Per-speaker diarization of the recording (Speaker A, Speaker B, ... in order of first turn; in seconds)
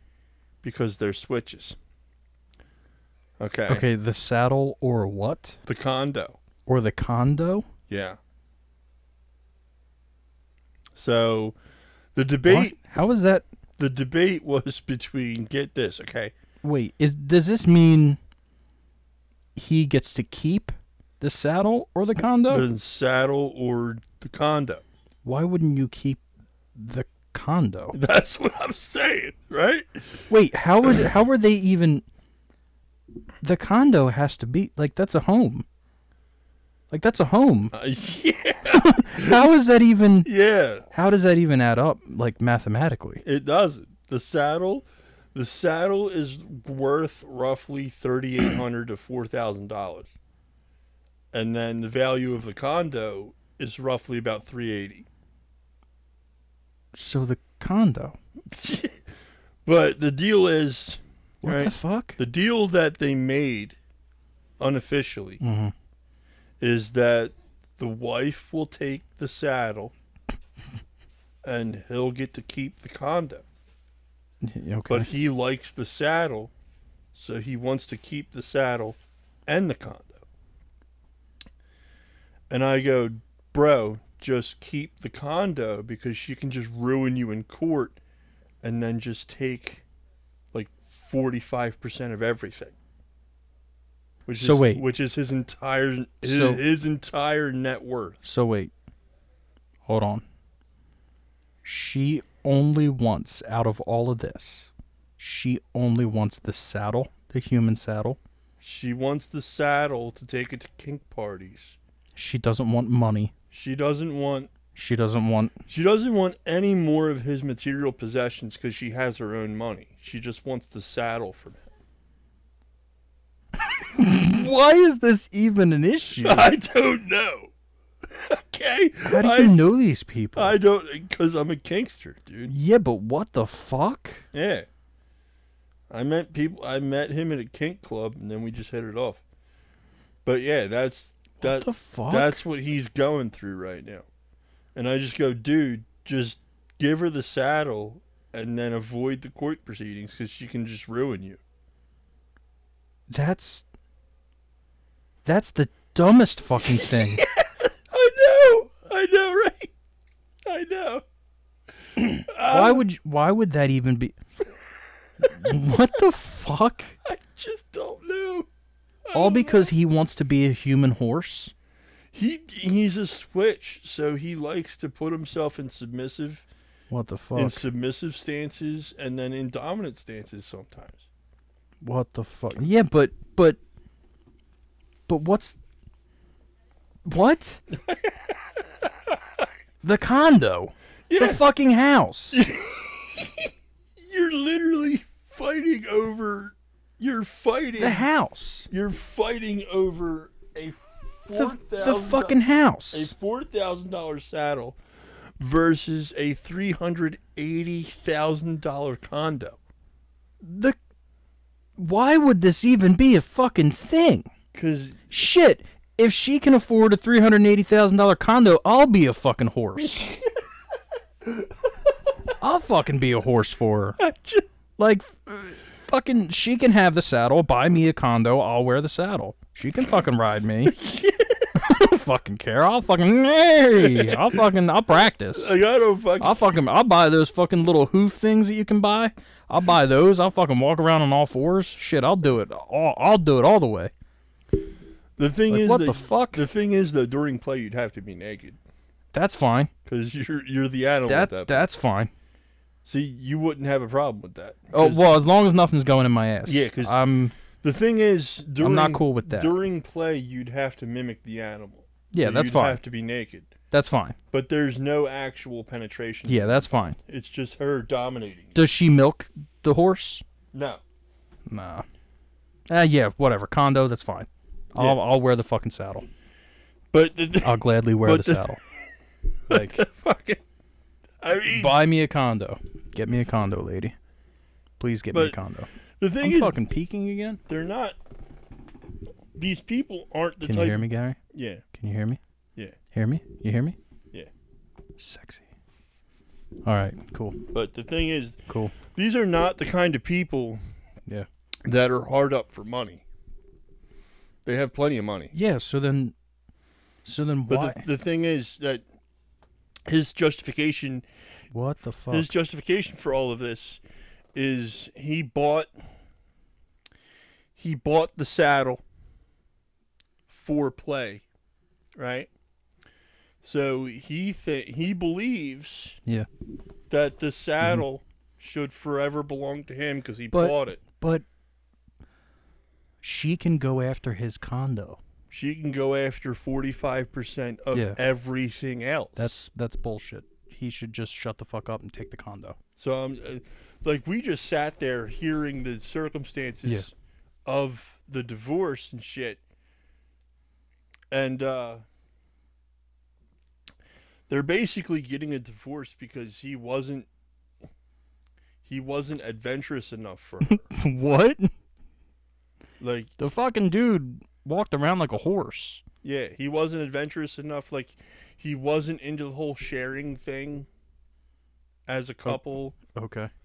Speaker A: 0.6-1.8, 3.4-3.9, 5.7-6.4, 7.9-8.2, 10.9-11.6, 12.1-12.8, 13.8-16.3, 22.5-24.8, 27.9-30.2, 37.7-39.4, 40.2-40.9, 43.2-50.1, 51.3-55.1, 58.5-59.0, 59.6-63.8, 64.6-65.4, 66.6-69.9, 71.4-73.5, 74.9-76.5, 77.1-80.2, 82.5-88.0, 88.6-89.8, 90.5-92.8, 94.2-98.2, 108.6-111.8, 113.5-114.5, 115.7-121.6, 126.2-127.5, 128.1-129.6, 130.3-132.5, 134.3-134.7, 135.9-139.2, 140.2-144.1, 144.7-151.4, 156.6-159.7, 160.4-161.0, 162.2-162.8, 167.0-168.5, 169.1-169.7, 172.1-176.4, 177.3-181.0, 187.9-188.2, 191.1-191.4, 192.3-198.1, 198.7-202.4, 202.9-204.8, 205.4-209.6, 214.5-215.0, 219.8-220.3, 224.0-224.5, 230.6-231.6, 233.8-234.4, 235.3-236.4, 245.2-248.6, 249.8-251.7, 252.8-255.0, 256.4-257.0, 257.6-263.5, 264.3-268.6, 270.5-270.8, 276.9-278.6, 279.5-280.4, 281.2-281.8, 285.1-285.4, 286.0-286.6, 287.5-288.0, 289.3-291.6, 297.5-300.7, 301.6-303.0, 304.4-305.3, 307.5-308.8, 309.9-311.1, 312.1-313.8, 314.3-315.8, 317.6-318.8, 320.3-321.2, 322.0-322.3, 323.4-326.0, 326.9-330.8, 335.3-339.4, 342.8-346.9, 347.4-349.4, 351.1-351.8, 354.3-357.1, 358.6-360.7, 362.8-363.1, 366.0-370.7, 371.9-372.8
Speaker B: 3.7-5.6, 6.7-7.7, 12.4-13.4, 16.6-18.2, 19.6-22.7, 25.2-26.2, 26.7-28.0, 30.3-32.0, 33.4-35.6, 36.9-37.7, 38.7-40.3, 40.9-43.2, 56.9-58.2, 61.4-62.2, 65.4-65.7, 74.4-75.1, 94.4-94.8, 96.2-96.6, 98.2-98.7, 99.8-100.2, 101.6-108.2, 112.1-113.3, 114.7-115.5, 123.7-126.5, 129.0-130.6, 132.5-134.2, 141.4-142.4, 153.1-153.6, 155.2-157.2, 162.0-164.2, 165.2-166.9, 169.1-171.5, 176.9-177.7, 181.8-183.6, 185.1-185.6, 187.1-187.6, 189.8-192.4, 197.8-198.7, 201.3-203.1, 210.4-210.8, 211.8-214.3, 215.1-220.1, 222.4-224.0, 224.8-230.8, 231.5-235.6, 236.2-243.9, 245.5-246.4, 249.1-249.7, 251.1-252.1, 254.7-257.3, 258.6-259.5, 262.1-262.8, 263.7-264.2, 266.3-267.0, 268.5-270.2, 271.5-271.9, 272.7-276.1, 277.4-278.6, 279.5-279.8, 281.5-283.9, 284.8-285.7, 286.2-287.4, 290.4-291.2, 291.7-292.2, 292.9-293.8, 295.0-295.5, 296.6-297.4, 298.5-298.7, 305.3-306.1, 307.0-307.9, 311.5-312.3, 330.3-331.2, 333.0-335.0, 337.7-338.0, 339.2-342.6, 360.5-361.5, 363.2-365.8, 372.2-373.3